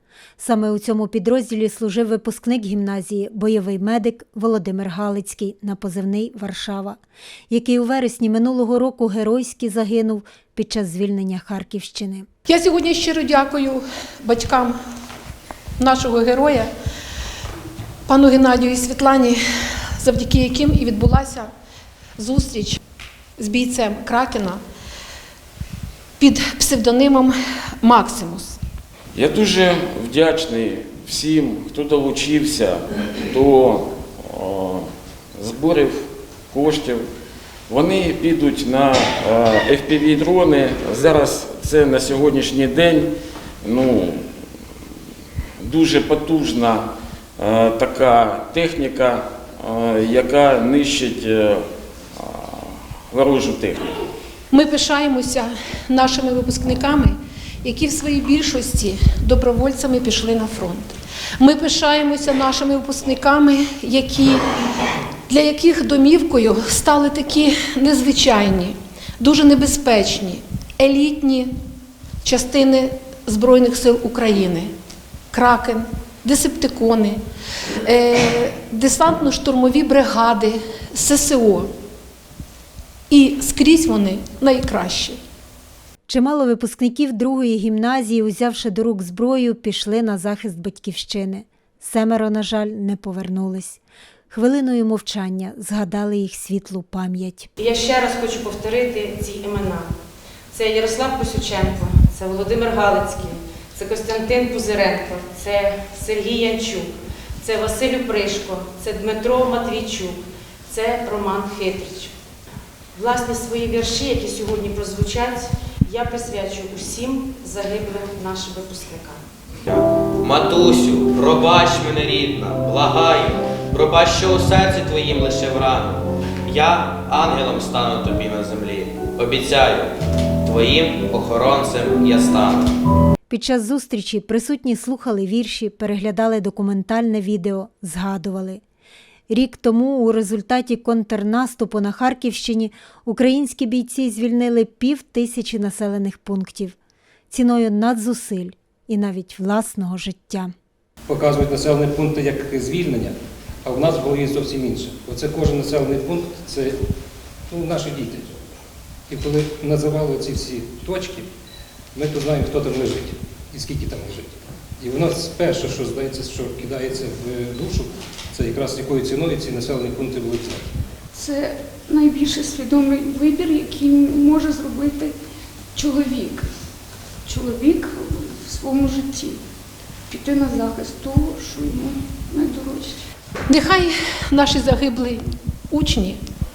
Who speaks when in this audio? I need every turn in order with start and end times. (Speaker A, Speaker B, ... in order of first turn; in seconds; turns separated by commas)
Speaker A: 0.4-7.0, Speaker A: 7.5-12.3, Speaker B: 12.5-14.7, Speaker B: 15.8-16.7, Speaker B: 18.1-19.4, Speaker B: 20.0-21.5, Speaker B: 22.2-22.8, Speaker B: 23.4-24.6, Speaker B: 26.2-28.6, Speaker C: 29.1-34.9, Speaker C: 35.4-37.0, Speaker C: 37.7-43.1, Speaker C: 43.6-44.2, Speaker C: 45.6-53.9, Speaker B: 54.5-64.5, Speaker B: 65.3-71.5, Speaker B: 72.2-74.7, Speaker B: 75.3-77.2, Speaker B: 77.8-81.7, Speaker B: 83.1-85.2, Speaker A: 86.1-93.8, Speaker A: 94.3-97.5, Speaker D: 97.6-99.9, Speaker D: 100.5-106.9, Speaker D: 107.4-112.1, Speaker D: 112.9-119.2, Speaker E: 119.6-129.9, Speaker E: 130.4-132.7, Speaker A: 133.3-138.6, Speaker A: 139.3-146.8, Speaker A: 147.3-150.5, Speaker F: 151.1-156.8, Speaker F: 157.5-158.4, Speaker F: 159.1-161.3, Speaker F: 161.9-170.7, Speaker G: 171.1-175.1, Speaker G: 175.7-176.5, Speaker G: 177.2-179.4, Speaker G: 180.1-183.0, Speaker B: 183.5-186.2